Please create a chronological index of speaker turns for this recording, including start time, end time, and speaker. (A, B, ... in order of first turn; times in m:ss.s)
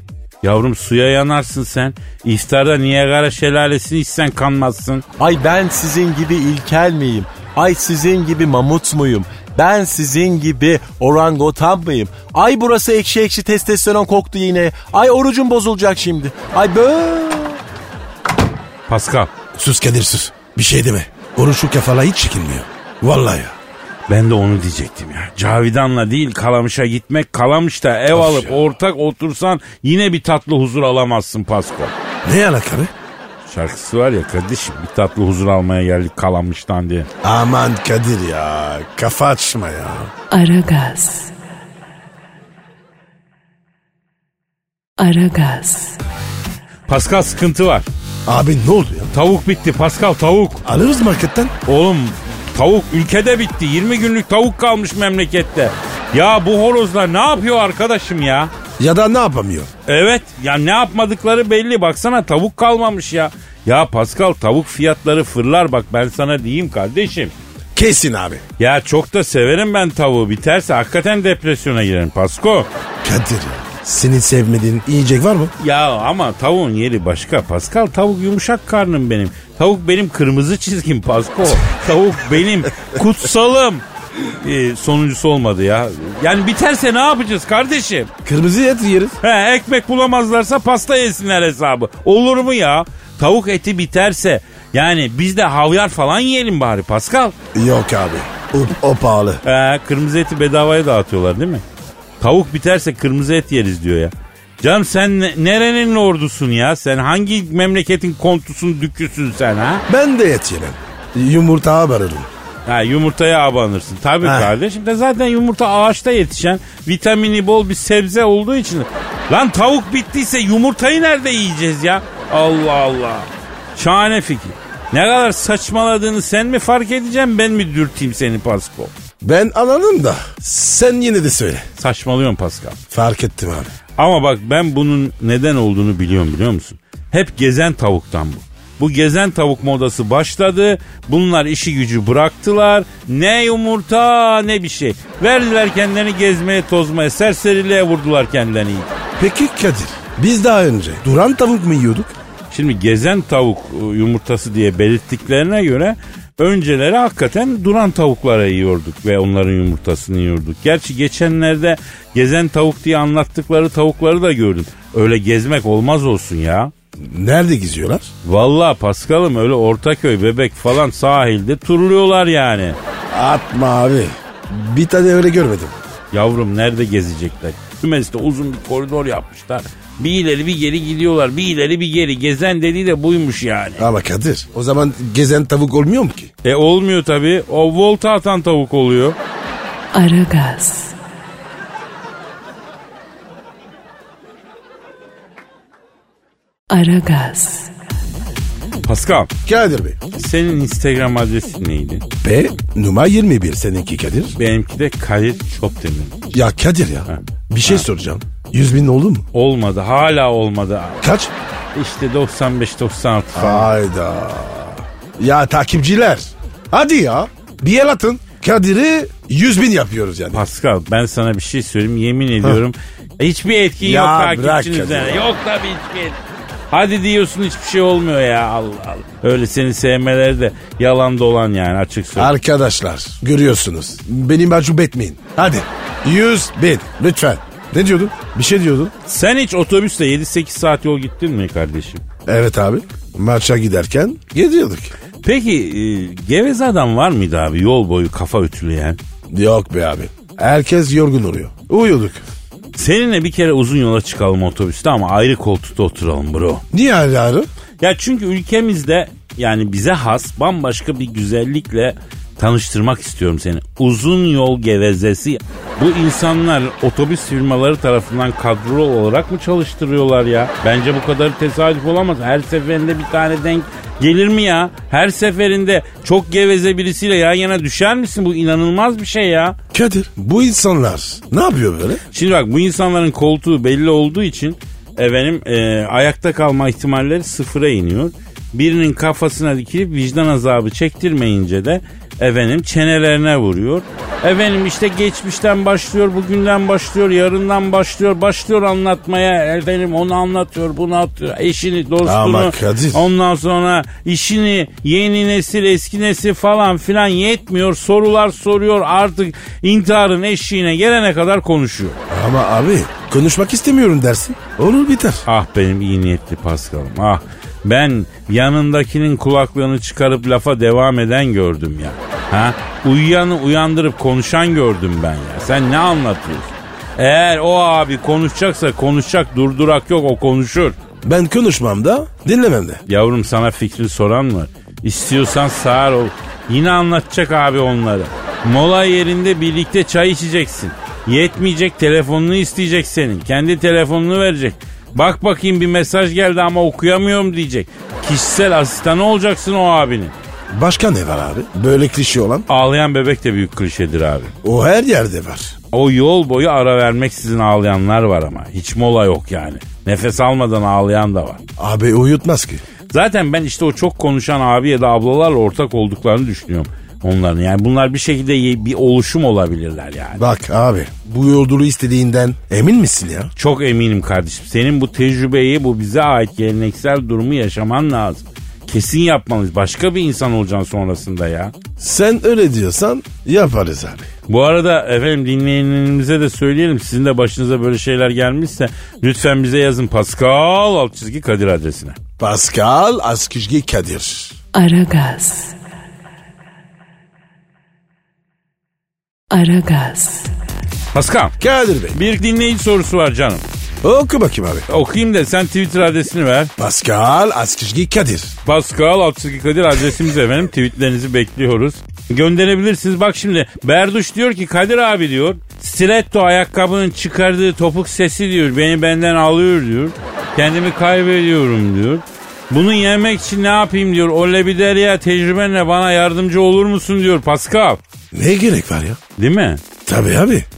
0:00.4-0:05.0 A
0:05.2-0:17.6 B
0:18.9-0:19.3 A
0:19.5-0:23.6 C
0:24.1-0:31.9 A
0:28.1-0:28.6 C
0:32.2-0:32.9 C
0:33.4-0:37.1 A
0:37.2-0:40.1 C
0:40.3-0:41.3 D
0:45.0-0:46.0 D
0:46.9-0:47.8 A
0:48.2-0:49.1 C
0:49.1-0:50.6 A
0:50.6-0:51.5 C
0:51.6-0:58.5 A
0:58.8-0:59.7 C
0:59.9-1:07.3 A
1:07.7-1:08.4 C
1:08.6-1:12.7 A
1:13.0-1:15.5 C
1:15.6-1:23.8 A
1:24.4-1:28.1 A
1:28.2-1:29.2 C
1:29.2-1:37.4 A
1:37.5-1:39.4 C
1:39.4-1:41.6 A
1:42.2-1:49.8 A
1:49.9-1:52.3 C
1:52.6-2:08.9 A
1:54.2-1:54.5 C
2:09.2-2:11.6 C
2:11.8-2:12.8 A
2:12.9-2:13.7 C
2:14.0-2:28.9 A
2:29.2-2:32.1 C
2:32.5-2:46.7 A
2:47.0-2:48.1 C
2:48.2-2:52.8 A
2:53.1-2:55.8 C
2:56.1-3:03.8 A
3:03.8-3:06.3 C
3:06.4-3:09.2 A
3:09.9-3:10.9 D
3:16.7-3:17.7 D
3:18.8-3:19.3 A
3:19.4-3:20.0 C
3:20.1-3:22.0 A
3:22.2-3:24.3 C
3:24.4-3:26.2 A
3:26.3-3:29.2 C
3:27.1-3:27.8 A
3:29.3-3:31.0 A
3:31.0-3:31.3 C
3:31.7-3:33.7 A
3:33.3-3:40.4 C
3:40.3-3:46.2 A
3:43.8-3:45.4 C
3:46.7-3:52.3 A
3:52.2-3:58.9 C
3:59.1-4:02.0 A
4:02.2-4:04.9 C
4:05.2-4:09.0 A
4:09.3-4:12.2 C
4:12.8-4:16.6 A
4:16.7-4:17.5 C
4:17.8-4:39.6 A
4:39.7-4:42.0 C
4:42.1-5:12.0 A
5:02.0-5:03.0 C
5:12.1-5:15.2 C
5:15.3-5:30.8 A
5:31.0-5:32.8 C
5:32.9-5:50.2 A
5:50.5-5:52.5 C
5:52.5-5:54.3 A
5:54.4-5:55.5 C
5:55.7-6:01.4 A
6:01.6-6:02.6 C
6:02.9-6:10.2 A
6:10.2-6:13.3 C
6:13.4-6:21.5 A
6:21.8-6:24.1 C
6:24.3-6:32.0 A
6:32.2-6:34.4 C
6:34.5-6:35.6 D
6:39.3-6:40.3 D
6:40.9-6:41.4 A
6:41.4-6:42.0 C
6:41.9-6:43.4 A
6:43.8-6:44.6 C
6:44.7-6:46.5 A
6:46.6-6:48.4 C
6:48.4-7:07.8 A
7:08.1-7:09.0 C
7:09.2-7:09.6 A
7:09.8-7:10.5 C